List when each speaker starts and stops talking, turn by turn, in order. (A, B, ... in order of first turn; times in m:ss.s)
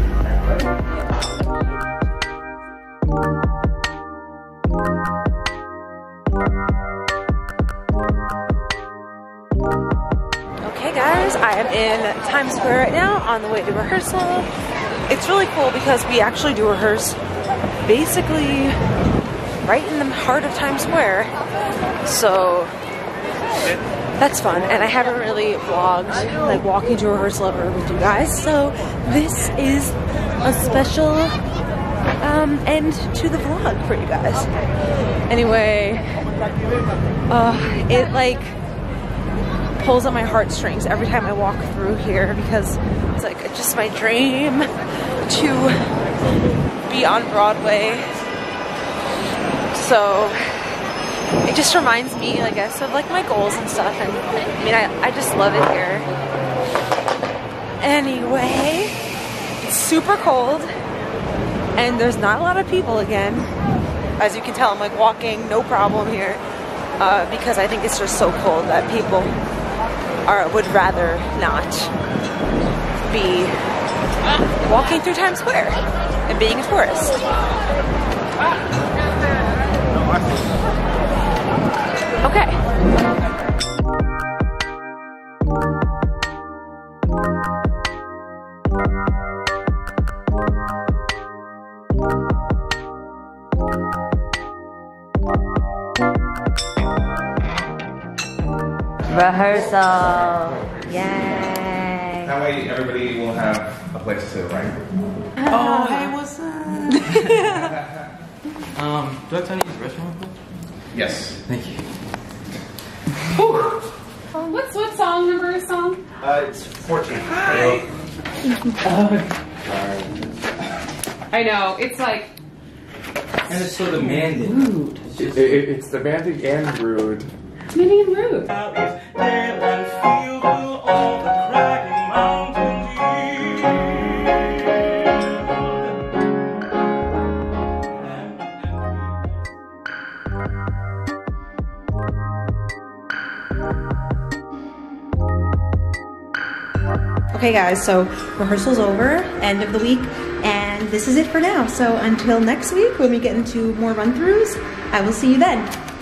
0:10.6-0:14.5 A
0:15.1-0:17.2 A
0:17.8-0:18.8 A
0:19.6-0:21.3 A
0:22.0-0:22.7 A
0:24.2-0:31.4 A
0:32.2-0:34.5 A
0:35.3-0:36.2 A
0:37.3-0:38.6 A
0:39.8-0:44.7 A
0:45.2-0:45.9 A
0:46.8-0:48.2 A
0:49.7-0:50.7 A
0:51.4-0:56.1 A
0:57.8-0:59.0 A
0:59.6-1:00.7 A
1:01.8-1:03.5 A
1:04.2-1:06.4 A
1:07.0-1:09.3 A
1:10.3-1:11.9 A
1:13.0-1:13.6 A
1:14.6-1:17.3 A
1:22.2-1:22.6 A
1:39.1-1:42.3 A
1:42.2-1:44.8 B
1:45.4-1:46.2 A
1:45.6-1:46.1 C
1:46.9-1:47.8 A
1:48.8-1:50.3 D
1:50.9-1:51.4 B
1:51.5-1:51.8 D
1:53.3-1:53.8 C
1:54.4-1:56.0 C
1:57.2-1:57.7 E
2:01.3-2:02.4 C
2:03.5-2:04.5 D
2:04.0-2:05.1 C
2:04.1-2:04.5 E
2:05.3-2:07.3 F
2:07.7-2:08.6 C
2:08.5-2:14.6 E
2:27.3-2:35.8 A